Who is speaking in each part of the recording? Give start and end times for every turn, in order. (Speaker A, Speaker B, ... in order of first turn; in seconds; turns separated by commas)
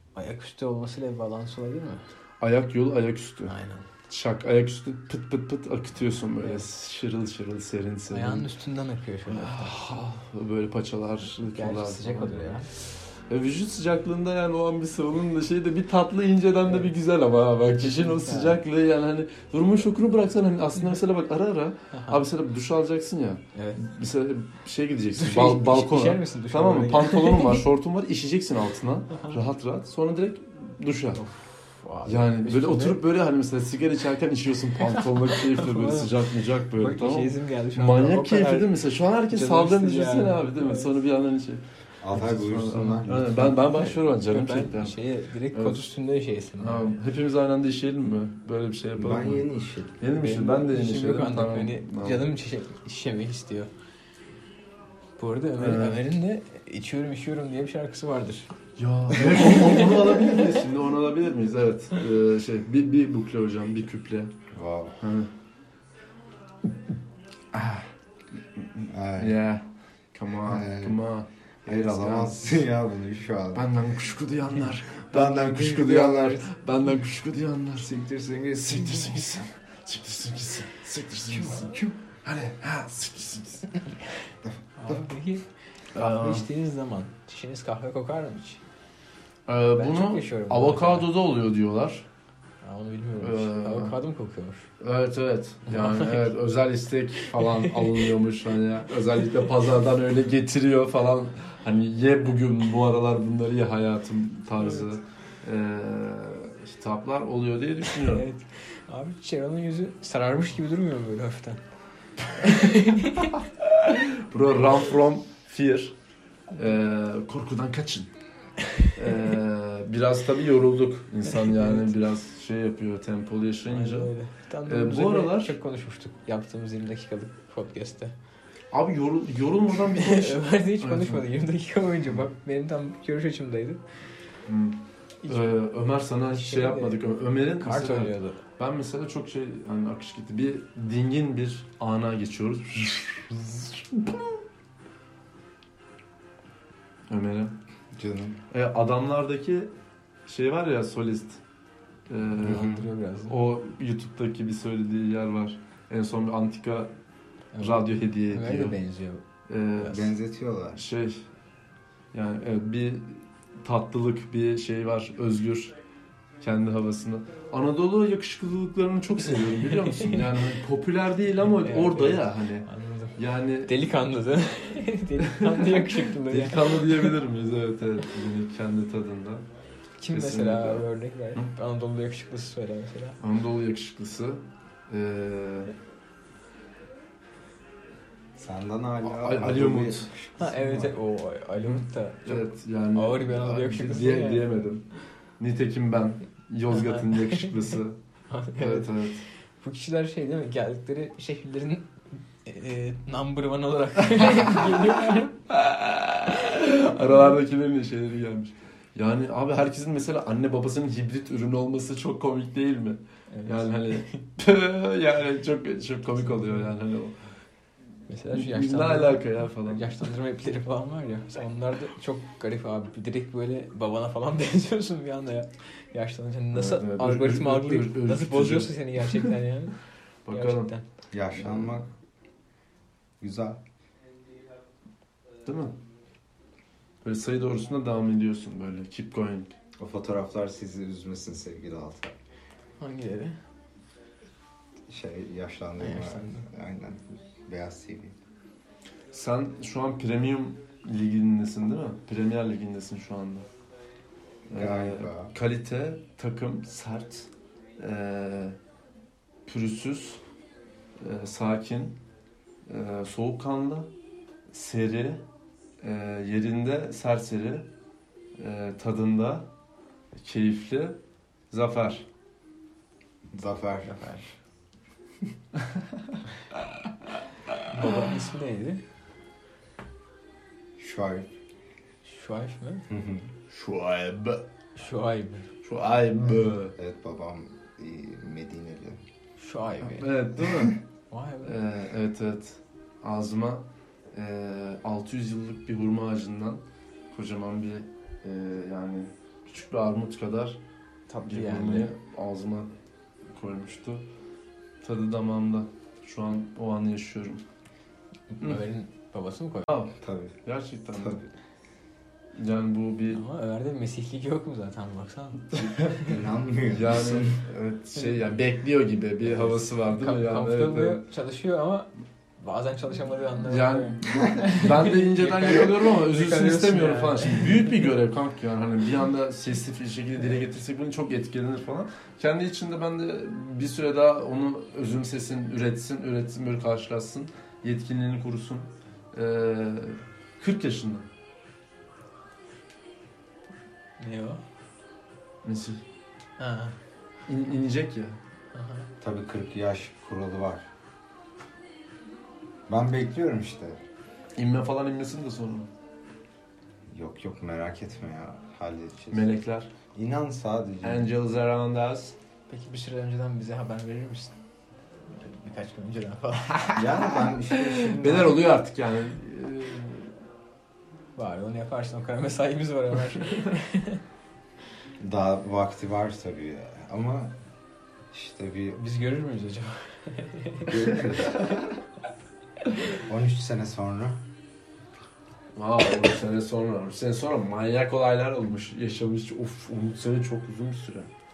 Speaker A: 0.1-2.0, Speaker B: 2.4-3.5, Speaker A: 3.5-3.9, Speaker B: 4.1-8.5, Speaker A: 8.1-9.8, Speaker B: 9.2-31.2, Speaker A: 11.2-12.7, Speaker A: 16.6-16.9, Speaker A: 17.8-18.6, Speaker A: 21.9-22.2, Speaker A: 23.5-23.8, Speaker A: 25.2-27.6, Speaker A: 29.1-29.5, Speaker A: 31.2-33.0, Speaker B: 32.0-45.0, Speaker A: 34.8-40.9, Speaker C: 42.0-43.6, Speaker A: 43.7-46.9, Speaker B: 45.5-45.9, Speaker B: 46.6-49.5, Speaker C: 49.0-50.0, Speaker B: 50.0-52.3, Speaker A: 50.1-53.7, Speaker A: 55.2-58.5, Speaker B: 55.6-56.0, Speaker B: 58.8-64.3, Speaker A: 59.1-60.6, Speaker C: 64.5-65.0, Speaker B: 65.0-65.3, Speaker C: 67.5-67.8, Speaker B: 68.7-72.6, Speaker C: 68.9-69.4, Speaker C: 70.4-71.0, Speaker C: 71.6-73.7, Speaker B: 73.5-77.9, Speaker C: 75.1-76.5, Speaker A: 77.8-79.3, Speaker B: 78.5-83.7, Speaker A: 81.3-82.0, Speaker C: 84.5-85.0, Speaker A: 84.8-88.6, Speaker B: 85.9-86.5, Speaker B: 89.5-92.0, Speaker A: 89.7-91.1, Speaker A: 92.6-94.7, Speaker B: 93.2-94.0, Speaker B: 94.8-108.2, Speaker A: 95.7-96.3, Speaker A: 97.2-98.1, Speaker A: 107.8-111.6, Speaker A: 112.3-113.4, Speaker B: 113.8-115.9, Speaker B: 116.5-118.1, Speaker B: 118.9-124.1, Speaker A: 121.5-121.8, Speaker A: 123.7-128.1, Speaker B: 124.6-125.5, Speaker B: 128.7-131.3, Speaker A: 129.8-133.8, Speaker B: 134.4-144.3, Speaker A: 135.2-138.4, Speaker B: 147.1-147.5, Speaker C: 147.9-148.4, Speaker B: 148.5-149.7, Speaker B: 150.3-151.4, Speaker B: 152.1-156.9, Speaker A: 152.3-153.3, Speaker C: 152.4-152.8, Speaker A: 157.5-159.2, Speaker B: 157.6-158.8, Speaker B: 159.5-160.1, Speaker C: 159.8-160.8, Speaker B: 160.7-161.3, Speaker B: 162.1-165.7, Speaker B: 166.4-173.7, Speaker A: 169.7-170.3, Speaker A: 171.4-177.2, Speaker B: 175.2-179.4, Speaker A: 180.0-183.2, Speaker B: 180.1-181.5, Speaker B: 183.2-185.7, Speaker C: 188.4-190.9, Speaker B: 189.0-190.1, Speaker A: 190.4-194.5, Speaker B: 192.2-194.8, Speaker B: 195.4-198.0, Speaker A: 196.7-197.8, Speaker A: 198.3-199.1, Speaker B: 198.5-199.2, Speaker A: 199.6-201.9, Speaker A: 202.4-205.5, Speaker B: 205.5-217.2, Speaker A: 213.3-214.0, Speaker A: 216.3-216.7, Speaker A: 218.1-229.8, Speaker B: 218.3-220.1, Speaker B: 226.5-229.2, Speaker B: 230.3-230.7, Speaker A: 230.3-230.8, Speaker C: 231.1-231.9, Speaker B: 231.3-231.8, Speaker C: 233.2-233.6, Speaker B: 235.4-235.7, Speaker B: 237.0-239.5, Speaker C: 239.8-242.1, Speaker A: 242.8-243.4, Speaker C: 244.9-248.1, Speaker A: 245.8-246.4, Speaker B: 249.1-253.4, Speaker B: 254.5-257.2, Speaker C: 254.5-255.3, Speaker B: 257.8-258.6, Speaker B: 259.5-260.2, Speaker B: 261.0-262.0, Speaker B: 262.7-263.9, Speaker B: 264.5-265.2, Speaker B: 265.8-267.7, Speaker B: 268.4-269.5, Speaker B: 270.2-271.0, Speaker B: 271.5-272.1, Speaker C: 273.3-274.2, Speaker A: 273.8-274.3, Speaker B: 277.5-277.9, Speaker A: 277.7-278.8, Speaker C: 280.8-281.3, Speaker A: 282.0-282.8, Speaker C: 282.9-283.3, Speaker B: 283.5-284.4, Speaker A: 284.8-285.5, Speaker B: 285.6-286.7, Speaker C: 286.8-289.0, Speaker A: 289.4-290.2, Speaker B: 289.8-290.8, Speaker A: 291.1-291.6, Speaker B: 291.4-300.6, Speaker A: 301.1-301.9, Speaker B: 301.2-302.7, Speaker B: 303.3-304.0, Speaker B: 304.8-307.4, Speaker A: 308.3-309.7, Speaker B: 309.7-311.2, Speaker C: 310.0-310.4, Speaker C: 310.9-311.3, Speaker B: 312.4-313.2, Speaker A: 313.1-316.2, Speaker C: 316.0-317.4, Speaker B: 316.7-321.0, Speaker A: 319.3-327.9, Speaker B: 323.4-341.1, Speaker A: 344.0-344.4, Speaker B: 345.4-345.8, Speaker A: 346.4-346.8, Speaker B: 347.3-348.2, Speaker A: 348.5-348.9, Speaker C: 349.0-350.7, Speaker C: 352.7-353.8, Speaker B: 354.4-355.7, Speaker C: 356.9-359.3, Speaker B: 359.1-359.7, Speaker C: 359.9-361.1, Speaker B: 360.8-362.1, Speaker A: 362.5-364.3, Speaker A: 365.1-367.2, Speaker C: 366.8-368.4, Speaker B: 367.7-370.1, Speaker A: 371.1-374.0, Speaker C: 375.0-377.3, Speaker C: 378.1-378.8, Speaker A: 378.7-381.4, Speaker C: 380.6-381.4, Speaker C: 383.1-384.2, Speaker B: 385.5-391.1